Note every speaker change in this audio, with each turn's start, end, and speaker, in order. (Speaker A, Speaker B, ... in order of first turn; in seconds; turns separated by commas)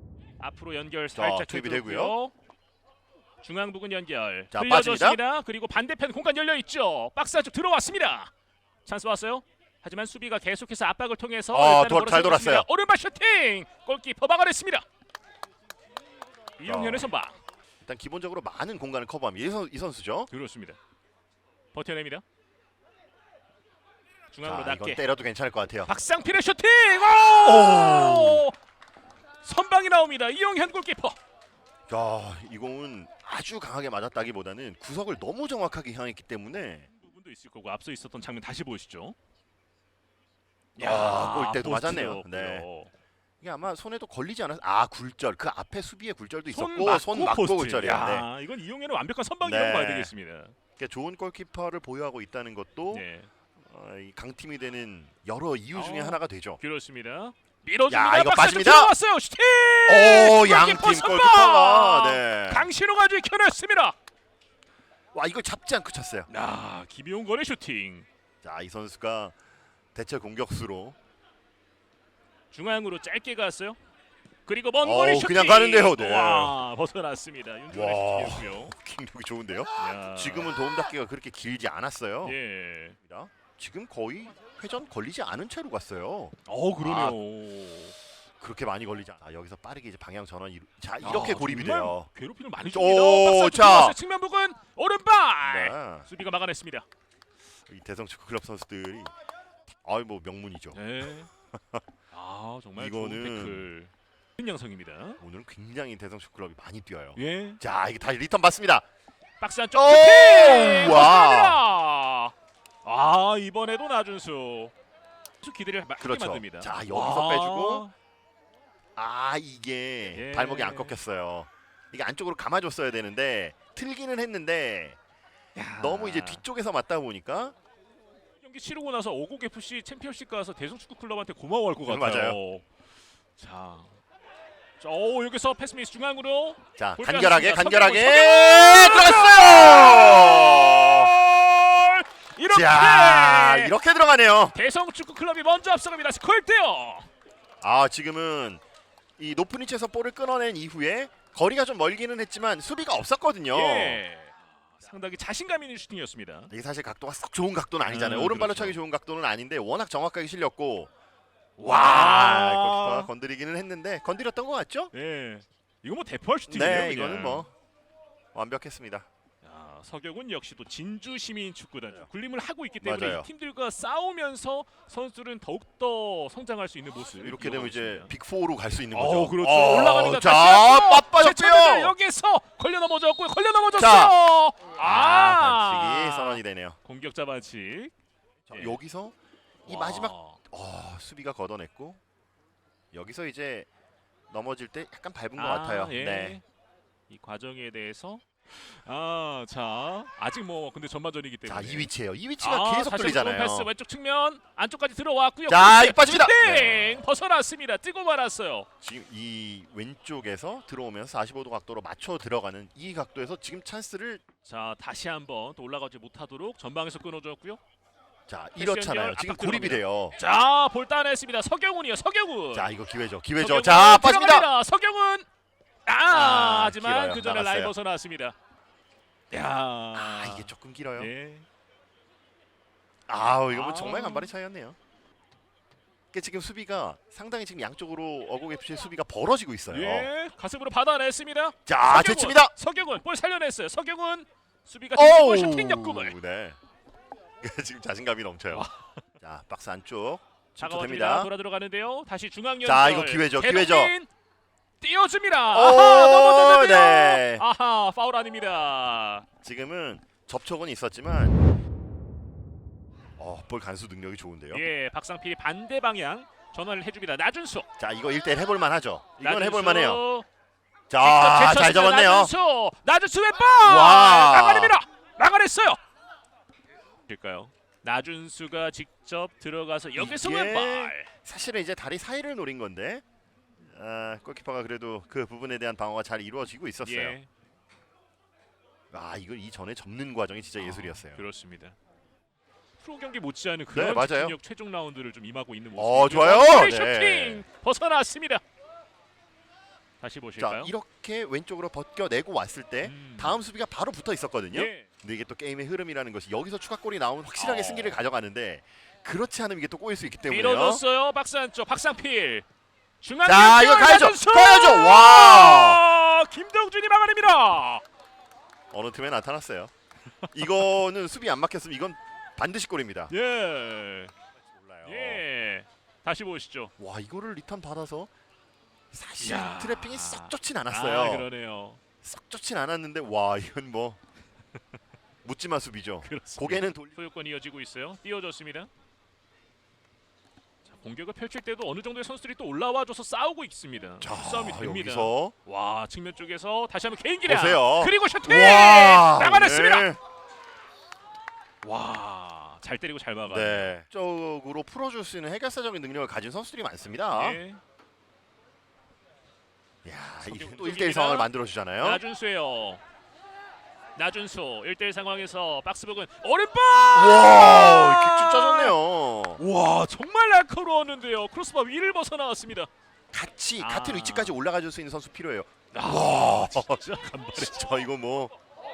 Speaker A: 0.4-2.3, Speaker B: 1.1-2.1, Speaker A: 3.4-8.3, Speaker B: 4.5-5.2, Speaker A: 8.8-14.8, Speaker B: 11.5-12.7, Speaker A: 16.6-17.4, Speaker B: 16.6-17.1, Speaker B: 17.9-20.3, Speaker A: 20.3-20.8, Speaker A: 21.7-22.2, Speaker A: 24.3-25.0, Speaker B: 24.4-25.9, Speaker A: 25.9-28.5, Speaker B: 27.4-28.5, Speaker A: 29.4-31.2, Speaker B: 31.9-36.9, Speaker A: 36.9-39.2, Speaker A: 40.8-42.9, Speaker B: 40.8-42.7, Speaker B: 43.4-48.3, Speaker A: 46.5-50.5, Speaker B: 49.4-50.1, Speaker B: 50.8-53.1, Speaker A: 52.9-53.3, Speaker B: 53.6-56.6, Speaker A: 55.7-64.0, Speaker B: 57.9-58.9, Speaker B: 59.9-62.7, Speaker B: 65.1-66.3, Speaker A: 66.3-68.1, Speaker B: 68.4-69.4, Speaker B: 69.9-71.0, Speaker A: 72.5-73.8, Speaker A: 74.5-78.7, Speaker B: 74.8-76.5, Speaker B: 77.7-82.4, Speaker A: 79.8-80.6, Speaker A: 82.2-83.0, Speaker B: 83.0-87.2, Speaker A: 86.5-88.0, Speaker B: 88.4-92.1, Speaker A: 91.0-96.9, Speaker B: 92.7-94.0, Speaker B: 95.4-96.1, Speaker B: 97.7-99.1, Speaker B: 99.7-100.8, Speaker A: 100.7-101.3, Speaker B: 101.6-101.8, Speaker A: 102.1-105.2, Speaker B: 102.8-103.7, Speaker B: 105.2-108.8, Speaker A: 107.2-107.6, Speaker A: 109.4-114.7, Speaker B: 109.7-111.6, Speaker A: 115.4-117.9, Speaker B: 116.0-117.9, Speaker B: 119.0-125.0, Speaker A: 120.1-121.0, Speaker A: 125.5-126.5, Speaker B: 125.8-127.5, Speaker A: 128.4-132.7, Speaker B: 131.9-132.4, Speaker A: 133.4-134.0, Speaker A: 134.8-143.8, Speaker B: 136.8-141.1, Speaker B: 142.5-144.6, Speaker A: 144.5-147.1, Speaker B: 147.6-148.6, Speaker B: 149.2-154.0, Speaker A: 153.5-156.5, Speaker B: 156.5-160.9, Speaker A: 157.8-158.8, Speaker A: 161.6-163.1, Speaker B: 161.7-164.9, Speaker A: 164.9-167.5, Speaker B: 166.5-167.5, Speaker B: 168.3-169.1, Speaker A: 169.4-178.1, Speaker B: 172.8-173.3, Speaker B: 177.1-181.9, Speaker A: 178.9-187.9, Speaker B: 183.7-184.2, Speaker B: 184.8-186.8, Speaker B: 188.5-189.2, Speaker A: 188.5-188.8, Speaker A: 189.7-190.4, Speaker B: 189.7-192.0, Speaker B: 192.9-193.7, Speaker B: 194.3-196.4, Speaker A: 195.4-196.4, Speaker A: 197.1-208.7, Speaker B: 201.5-203.7, Speaker B: 205.5-207.0, Speaker B: 208.8-214.2, Speaker A: 214.4-217.6, Speaker B: 218.3-220.2, Speaker A: 218.6-222.7, Speaker B: 222.5-224.5, Speaker A: 223.4-225.3, Speaker A: 225.9-228.4, Speaker B: 226.1-227.7, Speaker A: 229.3-231.5, Speaker B: 229.9-231.1, Speaker B: 233.1-234.8, Speaker A: 233.5-234.3, Speaker B: 236.1-240.1, Speaker A: 239.7-246.2, Speaker B: 241.7-242.5, Speaker B: 244.9-246.6, Speaker B: 247.4-248.7, Speaker A: 248.5-249.0, Speaker B: 249.2-251.3, Speaker A: 250.6-254.1, Speaker B: 252.6-253.9, Speaker A: 254.8-259.3, Speaker B: 255.5-257.4, Speaker B: 259.4-261.4, Speaker B: 263.2-264.6, Speaker A: 264.5-267.7, Speaker B: 267.8-270.0, Speaker A: 269.2-270.3, Speaker B: 270.9-272.3, Speaker A: 271.0-275.8, Speaker B: 273.6-274.8, Speaker A: 277.1-281.1, Speaker B: 280.0-283.0, Speaker B: 283.6-287.2, Speaker A: 286.8-287.3, Speaker B: 288.9-291.2, Speaker A: 290.6-291.8, Speaker A: 292.8-298.4, Speaker B: 293.7-294.4, Speaker B: 295.8-297.4, Speaker A: 300.0-300.7, Speaker B: 300.4-310.8, Speaker A: 302.8-303.4, Speaker A: 304.5-304.9, Speaker A: 307.4-308.0, Speaker A: 310.2-312.5, Speaker A: 313.0-317.8, Speaker B: 313.2-315.8, Speaker B: 318.7-319.7, Speaker B: 320.3-323.1, Speaker A: 323.1-324.1, Speaker B: 324.4-325.2, Speaker A: 324.8-326.7, Speaker B: 326.8-328.1, Speaker B: 328.9-331.3, Speaker A: 329.2-331.8, Speaker B: 332.0-334.0, Speaker B: 335.2-336.9, Speaker A: 336.0-338.7, Speaker A: 340.6-349.9, Speaker B: 344.0-345.4, Speaker B: 347.3-350.0, Speaker A: 351.6-353.7, Speaker B: 353.3-357.4, Speaker A: 357.1-357.6, Speaker B: 359.9-362.0, Speaker A: 360.2-362.8, Speaker A: 364.0-368.8, Speaker B: 366.9-369.4, Speaker A: 369.4-372.7, Speaker B: 373.1-376.8, Speaker A: 373.6-374.3, Speaker A: 375.7-377.7, Speaker B: 377.3-378.3